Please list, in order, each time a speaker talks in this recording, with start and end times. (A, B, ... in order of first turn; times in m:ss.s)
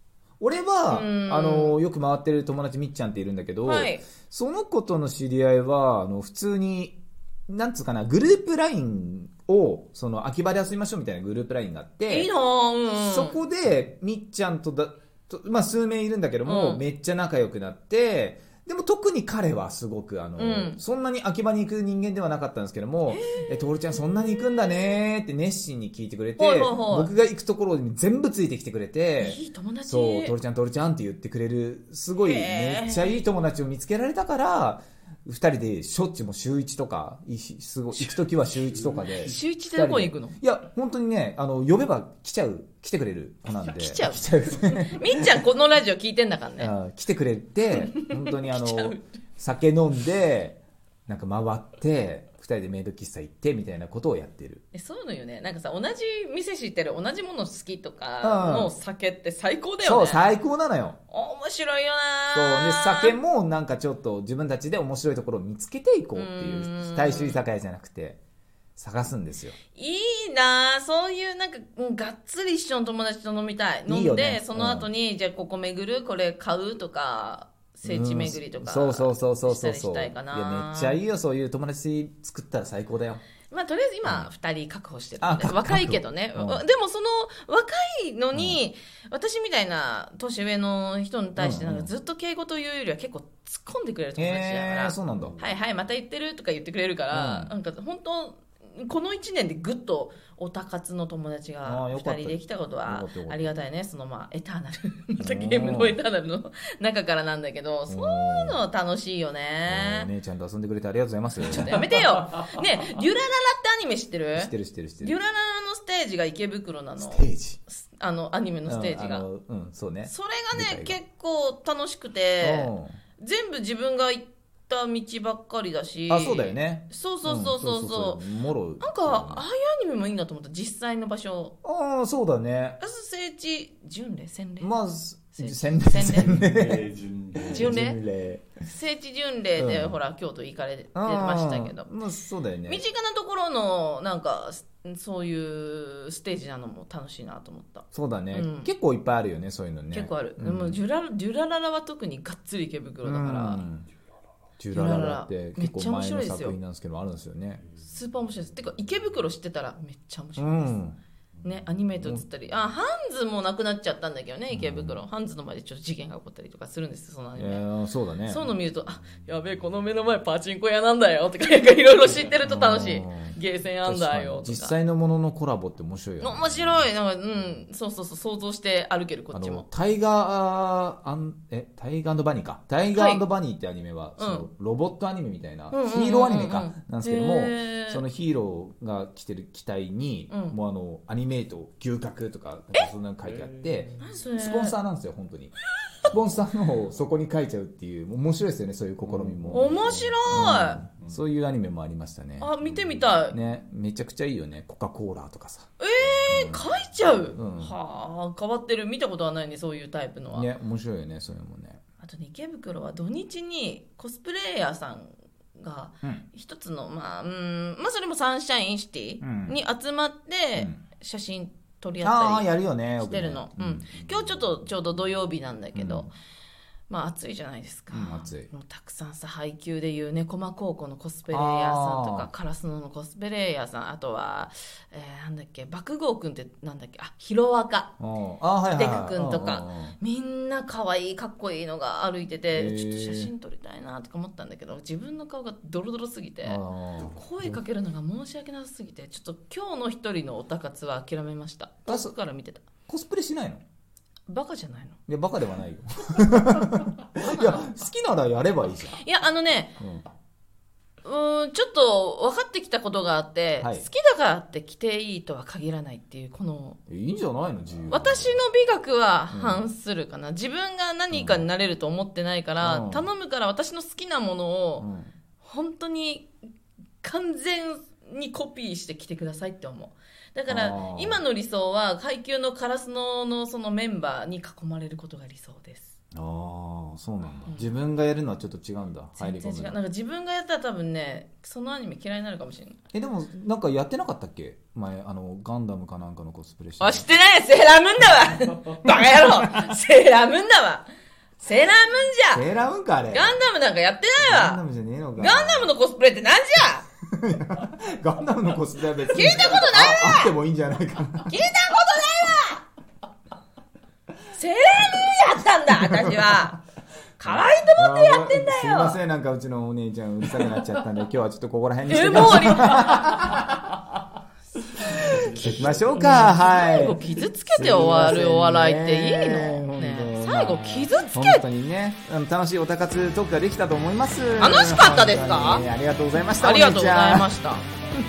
0:00.4-0:12.3 A
0:00.9-0:01.8 B
0:03.6-0:04.1 B
0:12.1-0:13.4 B
0:12.9-0:45.4 A
0:16.4-0:16.8 B
0:20.4-0:20.8 B
0:23.1-0:23.6 B
0:26.4-0:27.1 B
0:29.2-0:30.4 B
0:32.2-0:33.2 B
0:39.0-0:40.4 B
0:43.6-0:46.7 B
0:46.6-0:54.6 A
0:47.7-0:49.0 B
0:54.7-1:00.2 B
0:58.2-0:58.7 A
0:59.8-1:01.0 A
1:01.1-1:03.2 B
1:02.3-1:08.2 A
1:06.2-1:07.4 B
1:08.8-1:09.6 A
1:09.8-1:21.0 B
1:13.9-1:14.9 A
1:17.8-1:23.2 A
1:23.5-1:50.1 B
1:25.2-1:26.6 A
1:28.3-1:28.6 A
1:31.4-1:31.9 A
1:34.2-1:35.4 A
1:37.1-1:37.5 A
1:41.6-1:43.5 A
1:45.2-1:46.0 A
1:47.9-1:48.6 A
1:49.7-1:51.8 A
1:51.4-1:59.3 B
1:54.4-1:55.2 A
1:57.0-1:57.6 A
1:58.7-2:01.0 A
2:00.1-2:08.2 B
2:02.4-2:03.0 A
2:06.1-2:09.4 A
2:08.8-2:11.6 B
2:11.6-2:12.8 A
2:12.8-2:14.7 B
2:14.6-2:16.9 A
2:15.4-2:16.4 B
2:16.1-2:17.8 C
2:17.4-2:18.5 A
2:17.5-2:18.0 B
2:18.6-2:21.9 B
2:19.6-2:20.0 A
2:21.0-2:22.8 A
2:22.7-2:28.7 B
2:27.9-2:30.8 A
2:29.9-2:33.6 B
2:33.0-2:33.9 A
2:34.6-2:37.6 A
2:34.7-2:36.6 B
2:37.8-2:40.8 B
2:40.4-2:41.0 A
2:41.4-2:47.6 B
2:42.0-2:42.2 A
2:44.5-2:45.0 A
2:47.4-2:48.5 A
2:48.3-2:54.8 B
2:52.4-2:56.9 A
2:56.2-2:59.7 B
2:59.3-3:22.6 A
3:02.9-3:03.2 B
3:04.2-3:04.5 B
3:05.7-3:08.0 B
3:10.3-3:10.6 B
3:14.0-3:14.8 B
3:19.2-3:20.2 C
3:19.5-3:20.9 B
3:22.4-3:23.4 B
3:23.3-3:26.7 A
3:25.8-3:30.5 B
3:27.3-3:27.8 A
3:30.3-3:31.8 A
3:32.0-3:46.1 B
3:39.2-3:39.6 A
3:42.0-3:43.9 A
3:45.8-3:46.1 A
3:46.9-3:57.9 B
3:47.9-3:48.5 A
3:51.3-3:52.3 A
3:58.0-4:00.0 A
3:58.7-4:12.6 B
4:02.5-4:03.3 A
4:06.4-4:07.6 A
4:11.9-4:12.2 A
4:12.9-4:13.6 A
4:14.3-4:15.0 B
4:15.1-4:19.0 A
4:17.2-4:17.8 B
4:18.9-4:19.8 B
4:19.8-4:20.0 A
4:21.0-4:26.8 B
4:23.6-4:23.9 A
4:26.9-4:28.4 A
4:27.9-4:36.3 B
4:29.3-4:29.6 A
4:31.1-4:31.5 A
4:32.6-4:33.1 A
4:34.8-4:35.1 A
4:37.0-4:46.0 B
4:40.5-4:41.2 A
4:46.1-4:49.8 A
4:49.2-4:52.8 B
4:52.9-4:57.1 A
4:56.8-5:02.5 B
4:58.8-4:59.4 A
5:02.3-5:03.4 A
5:03.1-5:04.6 B
5:04.2-5:05.7 A
5:05.2-5:06.9 B
5:07.0-5:11.4 A
5:09.1-5:10.4 B
5:11.3-5:12.6 B
5:14.3-5:16.6 B
5:15.8-5:16.5 A
5:17.2-5:19.0 B
5:17.2-5:23.6 A
5:21.9-5:23.1 B
5:24.8-5:27.0 A
5:25.1-5:25.9 C
5:25.9-5:31.4 B
5:27.6-5:37.3 A
5:34.4-5:35.7 B
5:36.3-5:37.7 B